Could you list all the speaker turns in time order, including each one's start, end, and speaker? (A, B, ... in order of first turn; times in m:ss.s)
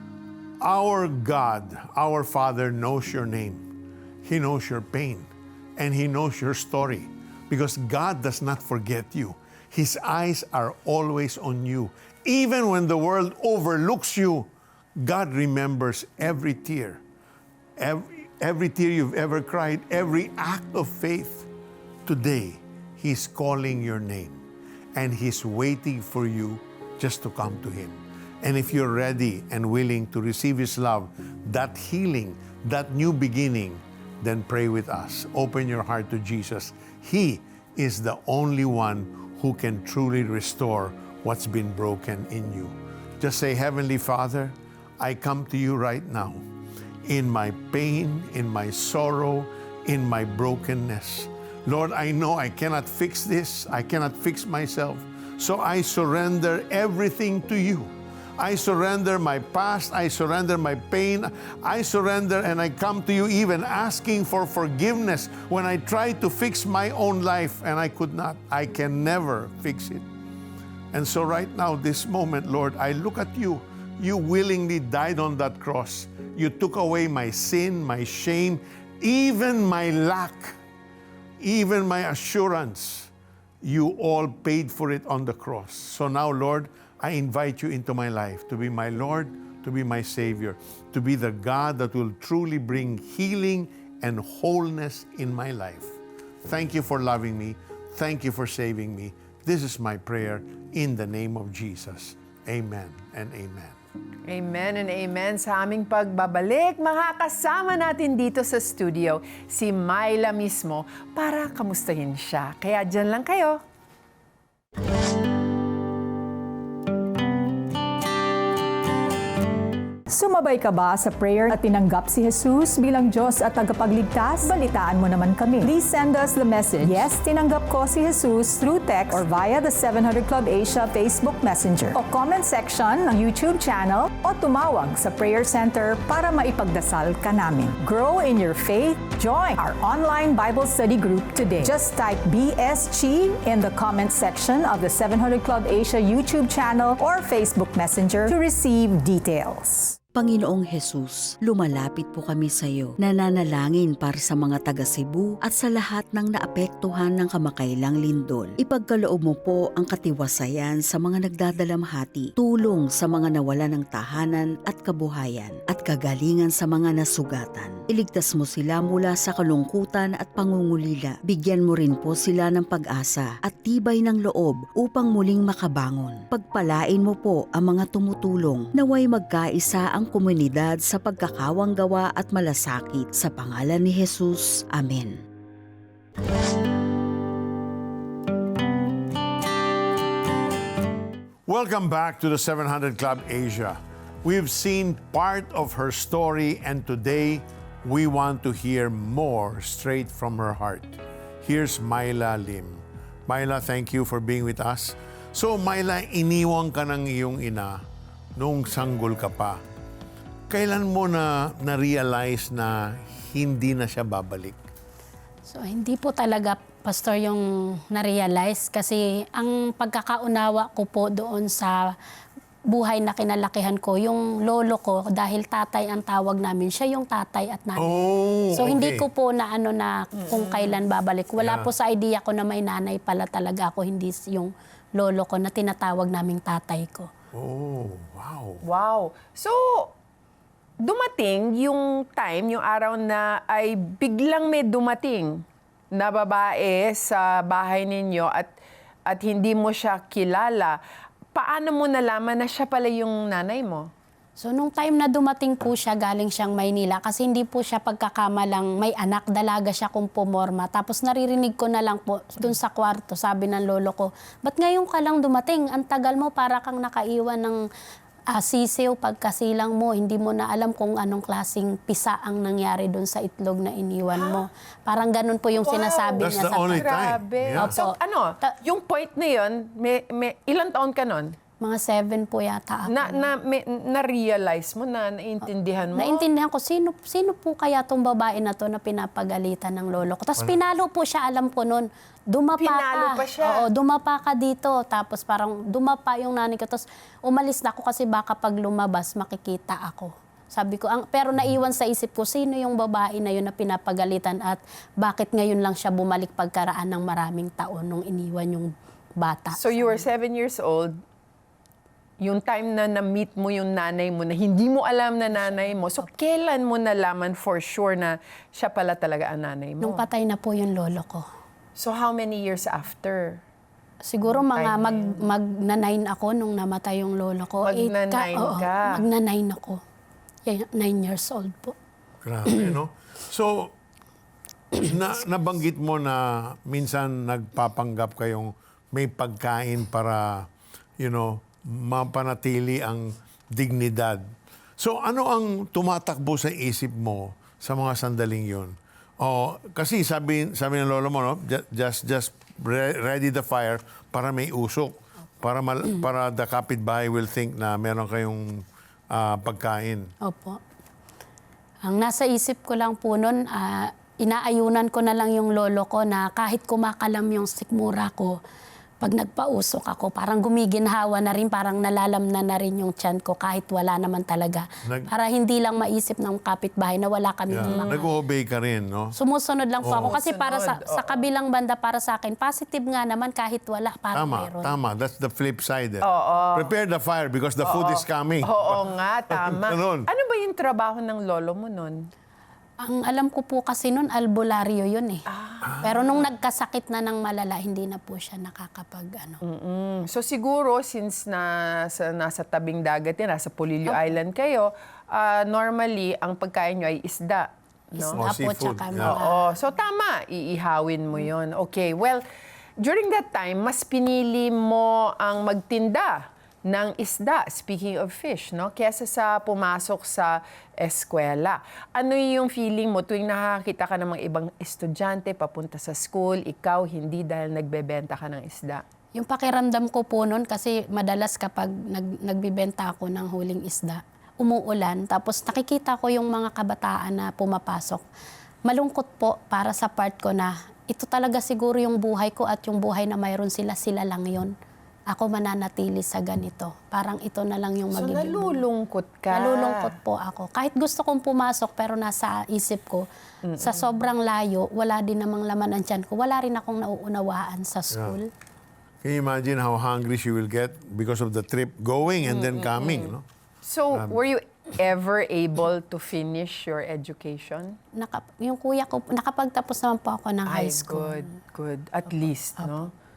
0:00.6-0:03.7 A
0:04.2-0:17.0 A
0:17.8-0:21.5 A
0:22.1-0:24.4 A
0:25.0-0:46.4 A
0:47.0-1:10.0 A
1:10.9-1:20.6 A
1:21.4-1:23.1 A
1:23.6-1:43.8 A
1:44.3-1:53.6 B
2:00.1-2:29.9 C
2:30.2-3:05.2 D
3:11.5-3:27.8 A
3:28.4-3:29.6 A
3:30.5-3:34.6 A
3:35.5-3:42.0 E
3:42.7-3:48.0 E
3:47.8-3:49.0 A
3:48.5-3:57.1 E
3:50.2-3:50.8 B
3:51.4-3:51.7 A
3:57.3-3:58.6 A
3:58.6-3:59.9 B
4:00.8-4:08.5 B
4:09.1-4:10.8 B
4:11.3-4:13.9 B
4:14.4-4:27.6 E
4:28.3-4:36.9 E
4:34.1-4:34.5 B
4:35.6-4:41.4 B
4:36.2-4:37.7 A
4:37.6-4:38.6 E
4:41.6-4:43.3 E
4:42.9-4:46.2 B
4:46.0-5:10.0 E
4:52.6-4:53.7 B
5:09.5-5:11.0 B
5:12.2-5:20.1 B
5:19.8-5:21.3 E
5:21.8-5:23.4 B
5:24.1-5:29.8 E
5:24.3-5:25.3 B
5:27.6-5:29.1 B
5:30.5-5:31.8 E
5:32.2-5:33.7 A
5:34.7-5:44.3 A
5:44.8-6:00.1 A
6:00.2-6:00.6 E
6:01.8-6:08.4 E
6:09.0-6:18.0 E
6:17.5-6:19.1 A
6:17.7-6:18.0 B
6:19.2-6:24.8 E
6:19.8-6:20.1 A
6:19.9-6:21.2 B
6:24.1-6:30.1 A
6:26.0-6:26.7 B
6:27.6-6:32.1 B
6:32.8-6:35.2 E
6:35.3-6:36.0 B
6:35.6-6:35.9 A
6:35.8-6:39.4 E
6:39.4-6:48.3 B
6:48.0-6:49.5 E
6:48.1-6:49.2 A
6:49.0-6:52.2 B
6:52.8-7:08.8 B
7:09.2-7:18.0 E
7:18.7-7:24.5 E
7:25.1-7:28.6 E
7:27.9-7:29.9 B
7:29.3-7:33.1 E
7:33.4-7:34.0 B
7:33.6-7:38.3 E
7:37.9-7:38.2 A
7:39.0-7:43.2 A
7:42.3-7:43.1 B
7:43.6-7:47.8 B
7:48.0-7:51.3 E
7:50.5-7:52.9 B